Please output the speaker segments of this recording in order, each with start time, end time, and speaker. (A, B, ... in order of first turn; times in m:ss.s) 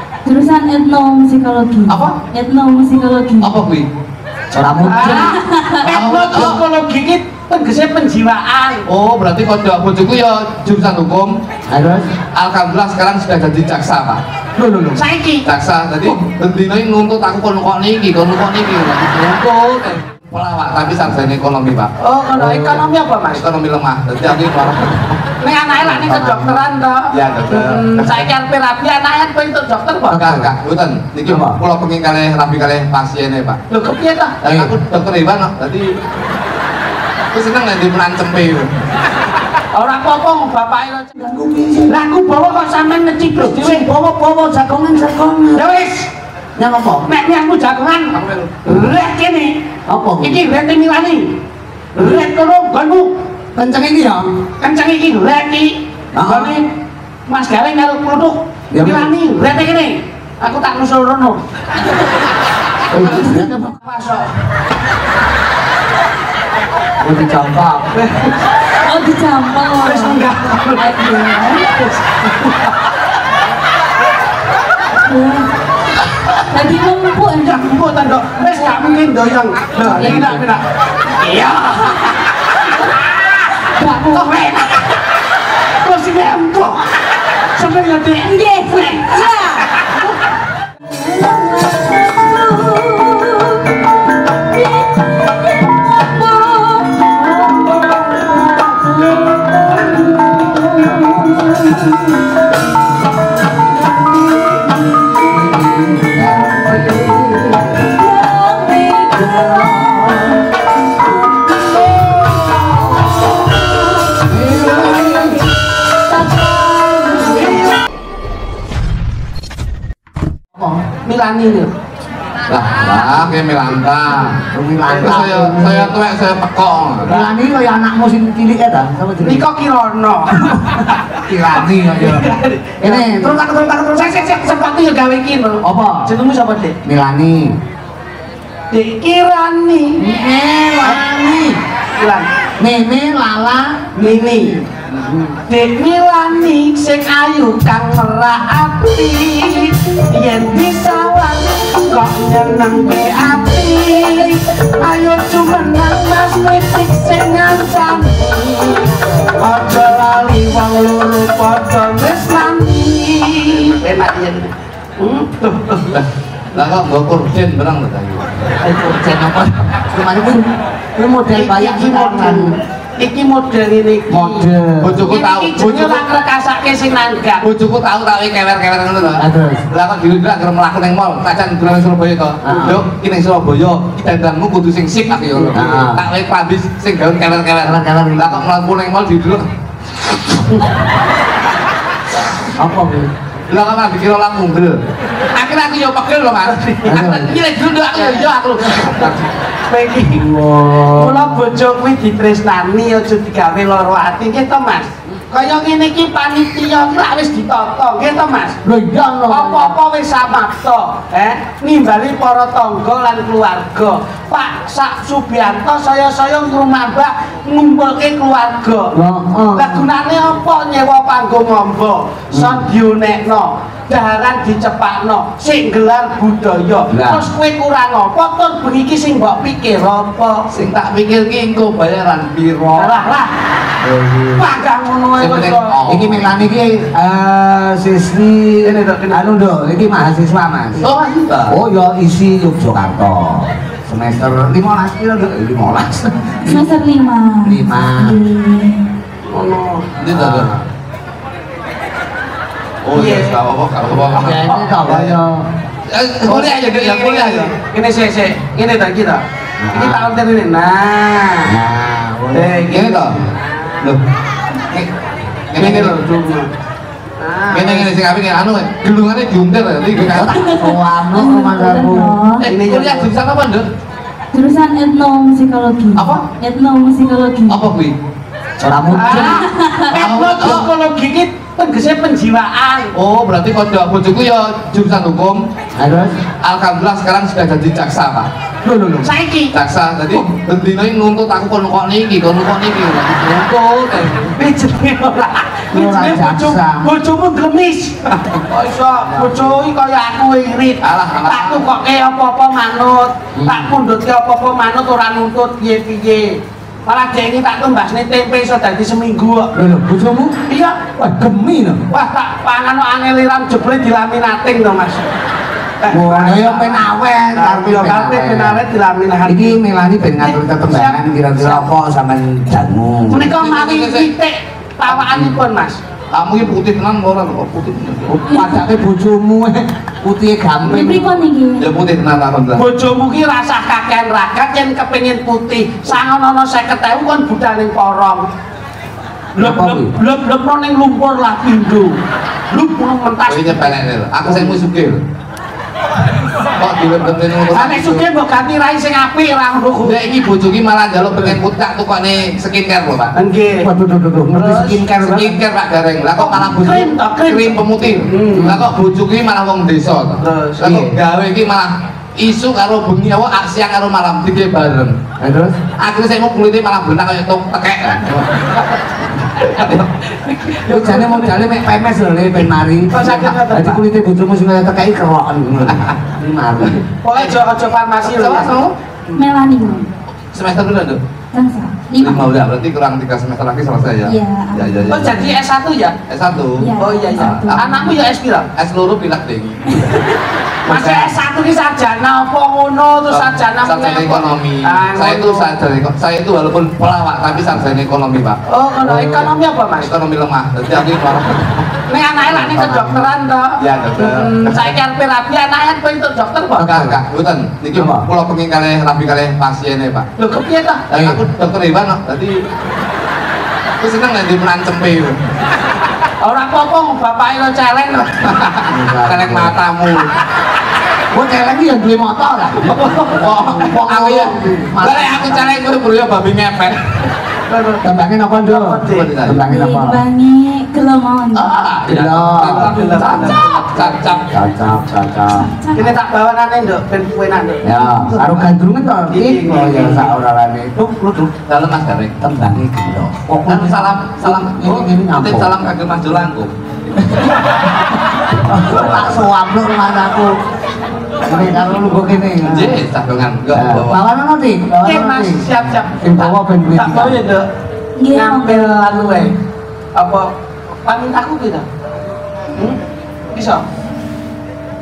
0:00.2-0:03.6 A
0:01.9-0:02.2 B
0:03.4-0:03.9 B
0:04.5-0:05.4 C
0:04.8-0:08.8 D
0:05.0-0:05.8 A
0:05.8-0:06.6 B
0:08.8-0:11.3 B
0:11.7-0:12.1 C
0:12.3-0:14.2 B
0:14.6-0:15.0 C
0:14.9-0:15.4 D
0:15.4-0:25.1 B
0:22.0-0:23.4 D
0:25.4-0:30.2 D
0:25.8-0:26.6 C
0:27.1-0:28.3 B
0:30.1-0:30.5 C
0:30.1-0:33.6 B
0:31.3-0:31.6 C
0:33.7-0:34.4 D
0:34.4-0:35.9 B
0:34.4-0:34.7 C
0:37.3-0:38.7 B
0:39.7-0:41.1 D
0:41.2-0:42.0 C
0:41.9-0:43.9 D
0:43.4-0:45.6 C
0:45.6-0:46.1 D
0:46.6-0:47.1 C
0:47.0-0:49.7 D
0:48.1-0:48.5 B
0:49.9-0:50.4 C
0:50.2-0:51.4 D
0:52.0-0:53.2 D
0:53.6-0:54.3 C
0:54.6-0:56.7 D
0:56.1-0:56.5 C
0:57.3-1:01.4 D
0:58.7-0:59.1 C
1:02.9-1:03.7 C
1:03.0-1:04.3 D
1:07.0-1:07.9 C
1:07.9-1:08.3 D
1:08.8-1:10.2 A
1:09.8-1:10.8 D
1:10.8-1:11.7 A
1:11.9-1:12.8 D
1:15.0-1:15.5 A
1:16.4-1:17.8 A
1:17.4-1:22.7 D
1:19.8-1:20.4 C
1:19.8-1:20.4 A
1:23.7-1:24.3 A
1:24.1-1:24.8 D
1:25.8-1:26.9 D
1:27.5-1:29.9 D
1:28.2-1:29.8 A
1:30.9-1:33.8 A
1:34.4-1:42.3 A
1:43.7-1:45.5 A
1:45.3-1:47.9 C
1:47.8-1:50.4 A
1:51.0-1:55.4 A
1:54.3-1:55.4 C
1:56.0-1:57.6 A
2:00.5-2:00.8 C
2:01.0-2:01.7 D
2:02.5-2:04.4 B
2:04.5-2:06.0 C
2:05.0-2:07.1 B
2:05.0-2:05.3 D
2:07.1-2:09.4 C
2:09.2-2:11.0 D
2:10.4-2:12.3 C
2:11.6-2:13.4 D
2:12.8-2:14.2 C
2:13.9-2:16.8 D
2:15.6-2:16.1 C
2:16.8-2:17.5 C
2:18.7-2:20.0 D
2:20.0-2:21.6 C
2:22.0-2:22.3 D
2:22.6-2:25.4 C
2:24.0-2:24.6 D
2:25.5-2:45.9 D
2:45.9-2:48.4 B
2:48.6-2:52.5 C
2:51.2-2:54.4 D
2:54.1-2:55.1 C
2:54.8-2:56.1 B
2:55.0-2:57.4 D
2:57.4-3:09.5 B
2:59.2-2:59.6 C
3:02.4-3:02.8 C
3:05.4-3:06.0 C
3:07.6-3:08.4 C
3:12.5-3:13.1 C
3:13.5-3:14.8 B
3:15.3-3:19.3 B
3:16.4-3:17.0 D
3:16.8-3:17.3 C
3:17.9-3:18.9 D
3:19.7-3:20.2 D
3:20.1-3:21.3 C
3:20.9-3:28.6 D
3:28.6-3:29.8 C
3:29.3-3:38.9 D
3:38.9-3:39.9 C
3:39.5-3:50.5 D
3:42.3-3:42.6 C
3:46.9-3:47.3 C
3:50.5-3:53.0 B
3:52.7-3:53.3 D
3:53.8-3:54.5 C
3:54.4-3:55.7 D
3:55.2-3:56.4 B
3:55.9-4:00.8 C
3:58.6-3:59.3 D
4:00.8-4:01.6 B
4:01.5-4:06.8 C
4:06.4-4:08.8 A
4:07.4-4:08.2 C
4:09.3-4:09.9 D
4:10.0-4:10.5 B
4:10.1-4:10.7 C
4:12.8-4:15.2 B
4:12.9-4:13.4 D
4:13.9-4:14.7 D
4:14.1-4:15.5 C
4:15.9-4:17.5 B
4:16.2-4:21.5 D
4:19.6-4:20.1 C
4:21.4-4:23.0 C
4:22.3-4:23.6 D
4:22.7-4:23.2 B
4:25.5-4:26.0 B
4:25.6-4:26.5 D
4:27.2-4:27.9 D
4:27.5-4:30.4 B
4:30.0-4:32.1 C
4:30.2-4:32.4 A
4:32.4-4:33.6 B
4:32.4-4:33.1 D
4:34.3-4:37.6 A
4:35.9-4:36.2 B
4:37.5-4:37.9 B
4:38.6-4:39.5 C
4:38.9-4:42.9 D
4:39.0-4:39.9 A
4:39.9-4:40.7 B
4:42.9-4:45.4 B
4:45.8-4:46.1 C
4:46.4-4:48.3 B
4:48.6-4:49.1 C
4:49.0-4:49.5 D
4:49.5-4:54.3 B
4:54.4-5:09.5 D
4:55.7-4:56.8 C
4:59.1-4:59.5 C
5:00.8-5:01.6 B
5:03.4-5:03.7 C
5:09.5-5:10.4 C
5:10.5-5:10.9 D
5:11.0-5:11.9 C
5:11.9-5:15.1 D
5:15.8-5:19.6 D
5:15.9-5:18.6 C
5:19.2-5:23.3 C
5:20.2-5:21.7 D
5:23.1-5:25.8 D
5:23.3-5:24.1 B
5:26.1-5:28.2 B
5:28.1-5:31.1 C
5:28.3-5:28.6 A
5:30.6-5:31.6 A
5:31.6-5:32.6 B
5:32.6-5:38.2 D
5:39.4-5:42.0 D
5:39.4-5:39.9 C
5:42.5-5:44.6 D
5:43.3-5:45.0 B
5:46.6-5:48.0 B
5:47.5-5:50.0 D
5:49.8-5:53.1 B
5:53.1-5:53.7 D
5:53.6-5:55.4 C
5:54.3-5:54.9 D
5:55.0-6:04.9 B
5:56.2-5:58.6 D
6:00.2-6:00.9 D
6:05.2-6:05.6 C
6:05.8-6:08.6 B
6:09.4-6:09.9 B
6:09.4-6:11.4 D
6:10.6-6:16.8 C
6:12.9-6:13.8 D
6:17.0-6:19.2 D
6:18.0-6:18.7 B
6:19.2-6:19.9 A
6:20.3-6:21.0 B
6:21.3-6:22.3 A
6:22.0-6:25.3 B
6:24.0-6:25.2 A
6:24.9-6:26.0 D
6:26.1-6:27.9 B
6:26.6-6:28.0 A
6:26.8-6:28.4 D
6:28.5-6:29.8 B
6:30.6-6:35.5 D
6:30.7-6:31.1 B
6:33.1-6:41.6 B
6:38.5-6:39.9 D
6:41.9-6:46.8 D
6:42.2-6:43.1 C
6:43.6-6:44.8 B
6:46.6-6:47.0 C
6:46.6-6:50.1 B
6:47.7-6:48.1 C
6:50.2-6:50.8 D
6:50.9-6:52.4 B
6:50.9-6:51.2 C
6:53.8-6:55.2 B
6:56.2-6:58.2 D
6:58.2-7:00.1 B
6:58.7-6:59.5 C
7:01.1-7:02.8 C
7:02.7-7:03.6 D
7:02.9-7:06.9 B
7:03.6-7:05.6 C
7:07.5-7:07.8 D
7:07.8-7:10.0 C
7:08.4-7:09.1 D
7:08.9-7:09.4 B
7:09.5-7:11.6 A
7:11.3-7:14.3 B
7:11.9-7:12.8 C
7:12.4-7:14.1 D
7:14.3-7:15.5 C
7:15.3-7:16.0 A
7:15.7-7:18.5 D
7:17.6-7:21.3 C
7:19.1-7:20.1 D
7:21.5-7:22.2 B
7:22.2-7:25.6 C
7:23.5-7:27.3 B
7:28.3-7:30.3 C
7:28.5-7:29.2 B
7:31.2-7:32.8 C
7:32.4-7:34.0 B
7:33.5-7:37.2 C
7:34.8-7:37.4 D
7:38.0-7:39.4 A
7:38.1-7:39.4 D
7:39.9-7:40.3 D
7:40.8-7:41.6 D
7:42.5-7:42.8 D
7:43.3-7:43.6 D